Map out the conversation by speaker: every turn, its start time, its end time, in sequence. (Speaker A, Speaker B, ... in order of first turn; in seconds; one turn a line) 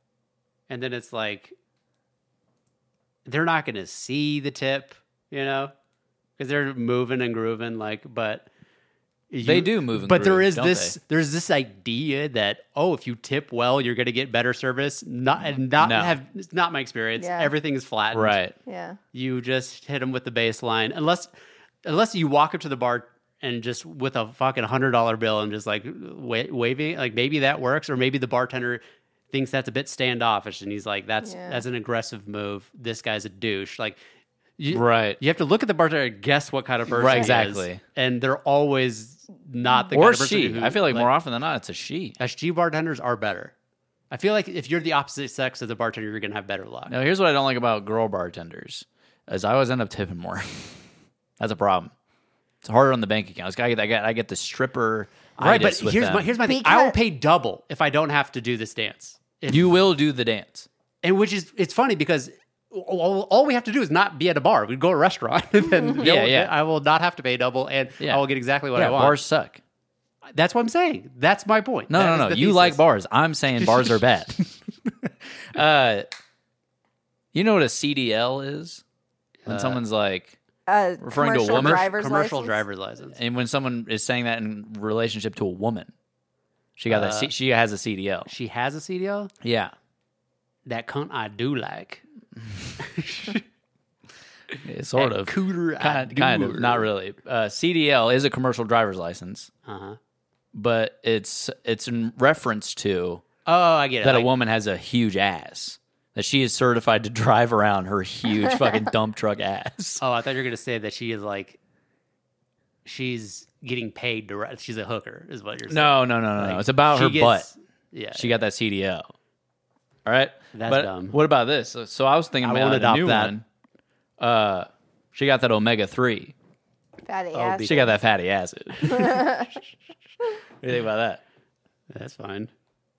Speaker A: 0.7-1.6
Speaker A: 3.3-5.7
Speaker A: 6.4-8.5
Speaker A: 9.3-18.4
Speaker B: 9.4-11.0
Speaker B: 15.8-16.2
Speaker C: 17.2-17.5
Speaker B: 18.1-18.6
Speaker C: 18.7-19.0
Speaker A: 19.1-21.3
Speaker A: 21.8-34.0
Speaker C: 31.2-31.6
Speaker A: 34.6-41.1
Speaker B: 34.7-35.2
Speaker B: 36.9-37.8
Speaker B: 39.9-42.2
Speaker A: 42.2-43.5
Speaker A: 44.1-46.9
Speaker B: 46.9-50.8
Speaker B: 51.4-51.9
Speaker B: 52.6-56.3
Speaker A: 55.4-59.7
Speaker C: 56.5-57.0
Speaker B: 59.5-60.7
Speaker A: 61.0-69.2
Speaker B: 66.0-66.5
Speaker B: 68.7-69.6
Speaker A: 70.3-72.8
Speaker B: 71.9-76.1
Speaker A: 73.6-74.0
Speaker B: 77.3-78.8
Speaker A: 79.5-79.8
Speaker B: 79.5-80.4
Speaker C: 80.7-82.6
Speaker B: 81.0-81.9
Speaker A: 81.5-83.2
Speaker B: 83.2-85.9
Speaker B: 86.8-88.3
Speaker A: 86.9-87.3
Speaker A: 88.3-89.3
Speaker B: 89.4-89.7
Speaker A: 90.7-92.0
Speaker B: 92.5-92.7
Speaker A: 92.8-93.4
Speaker B: 94.6-99.5
Speaker A: 95.0-96.9
Speaker A: 99.7-100.0
Speaker B: 100.5-103.2
Speaker A: 103.5-104.3
Speaker B: 104.0-110.0
Speaker A: 110.0-111.6
Speaker A: 112.8-118.3
Speaker B: 115.7-117.5
Speaker B: 118.2-119.1
Speaker B: 120.0-123.5
Speaker A: 120.5-121.2
Speaker A: 122.4-123.3
Speaker B: 124.2-126.3
Speaker C: 127.1-127.8
Speaker A: 127.3-127.9
Speaker B: 127.7-129.5
Speaker C: 129.0-129.5
Speaker B: 130.6-131.2
Speaker A: 131.9-132.5